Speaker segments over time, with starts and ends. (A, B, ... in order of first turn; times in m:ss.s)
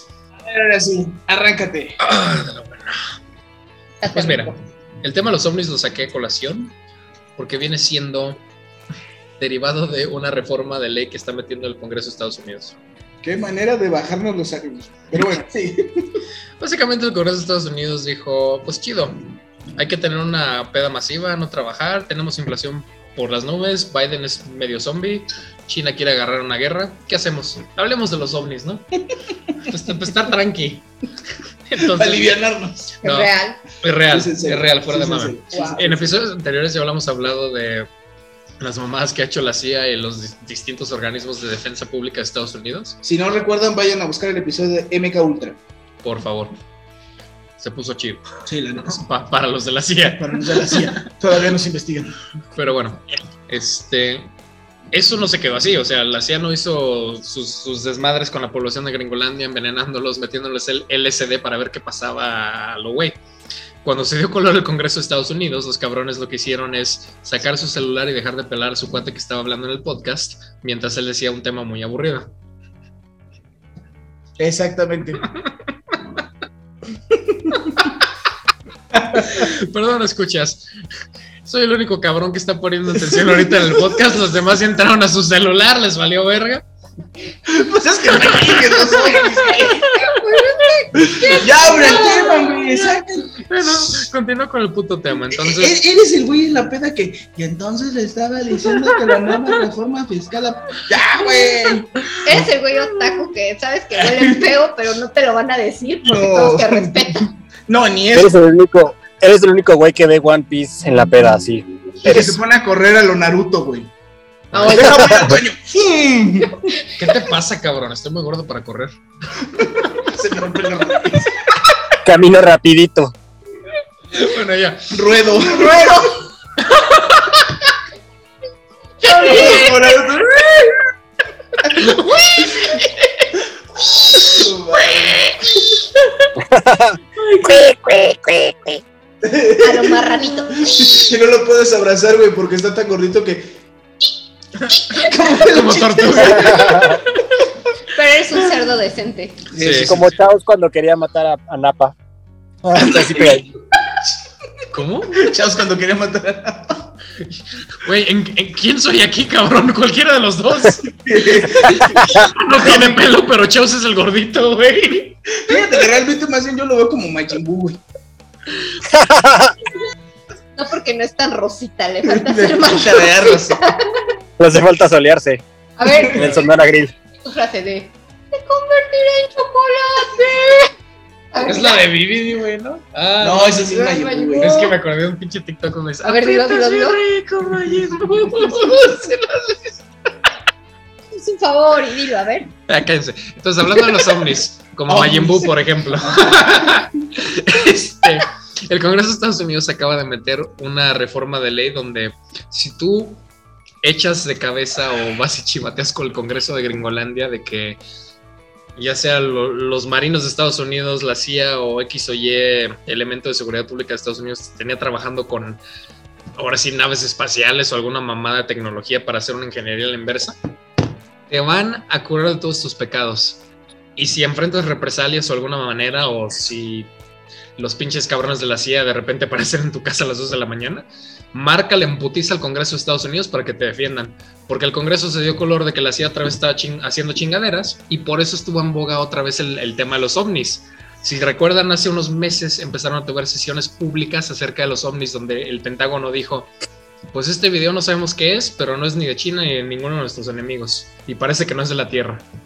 0:00.4-0:02.0 A
0:02.0-0:03.0 B
0:04.0-0:04.6 C
0:04.1-0:06.7 B
0:07.4-0:08.4 B
0:09.4-0:12.8 B
0:13.2-0:16.2 A
0:16.6-0:19.2 B
0:19.8-0:28.9 B
0:29.6-0:30.9 B
0:31.7-0:32.4 B
0:31.8-0:32.9 A
0:33.0-0:37.9 B
0:33.0-0:33.6 C
0:34.1-0:36.1 A
0:35.5-0:35.8 C
0:38.6-0:43.0 B
0:43.0-0:45.6 A
0:46.0-0:46.6 B
0:47.6-0:48.2 B
0:48.5-0:49.1 A
0:48.8-0:50.9 B
0:50.2-0:52.2 A
0:52.6-0:54.3 B
0:54.9-1:03.2 B
1:03.8-1:12.3 B
1:14.4-1:15.2 A
1:17.1-1:17.9 A
1:18.9-1:19.5 A
1:19.2-1:20.7 B
1:21.4-1:26.6 B
1:23.0-1:24.0 A
1:27.5-1:30.0 A
1:28.5-1:30.6 B
1:29.9-1:32.6 C
1:31.0-1:34.0 A
1:31.3-1:35.8 B
1:35.3-1:42.5 A
1:38.7-1:39.4 B
1:42.2-1:47.3 C
1:44.0-1:44.5 A
1:46.0-1:47.1 A
1:47.7-1:48.3 A
1:48.1-1:52.4 D
1:52.0-1:53.9 A
1:54.5-1:55.0 B
1:54.6-1:55.2 C
1:54.6-1:56.8 A
1:54.7-1:55.4 D
1:57.0-1:59.0 B
1:59.6-2:01.3 A
2:02.0-2:03.1 D
2:04.1-2:06.0 B
2:04.9-2:06.1 A
2:06.6-2:07.7 B
2:09.0-2:10.0 B
2:09.1-2:09.7 C
2:09.1-2:10.8 A
2:11.6-2:13.4 B
2:14.1-2:16.2 B
2:14.1-2:15.3 A
2:16.4-2:18.8 D
2:17.2-2:17.5 B
2:19.2-2:23.7 A
2:19.6-2:20.8 C
2:24.7-2:27.0 B
2:24.9-2:27.0 A
2:26.3-2:27.0 D
2:27.9-2:29.4 C
2:29.5-2:30.0 A
2:29.6-2:30.1 B
2:29.7-2:31.9 D
2:32.6-2:33.5 D
2:32.7-2:33.6 A
2:34.7-2:35.4 B
2:35.1-2:36.9 A
2:37.7-2:45.2 B
2:40.9-2:43.1 A
2:42.0-2:42.3 D
2:45.3-2:47.8 A
2:48.9-2:49.6 D
2:50.6-2:54.0 C
2:52.1-2:53.6 A
2:54.4-2:55.4 D
2:55.8-2:56.3 C
2:55.9-2:56.3 A
2:56.0-2:56.9 D
2:57.2-3:00.7 C
3:01.3-3:01.8 C
3:01.4-3:03.8 B
3:03.2-3:04.5 A
3:03.7-3:04.8 C
3:04.4-3:09.8 B
3:06.0-3:07.0 C
3:11.2-3:12.5 C
3:12.7-3:23.2 B
3:14.9-3:16.8 A
3:23.8-3:27.8 B
3:28.8-3:35.6 B
3:36.4-3:40.4 B
3:41.3-3:43.4 B
3:44.0-3:46.9 B
3:47.6-4:06.5 B
4:07.1-4:12.2 B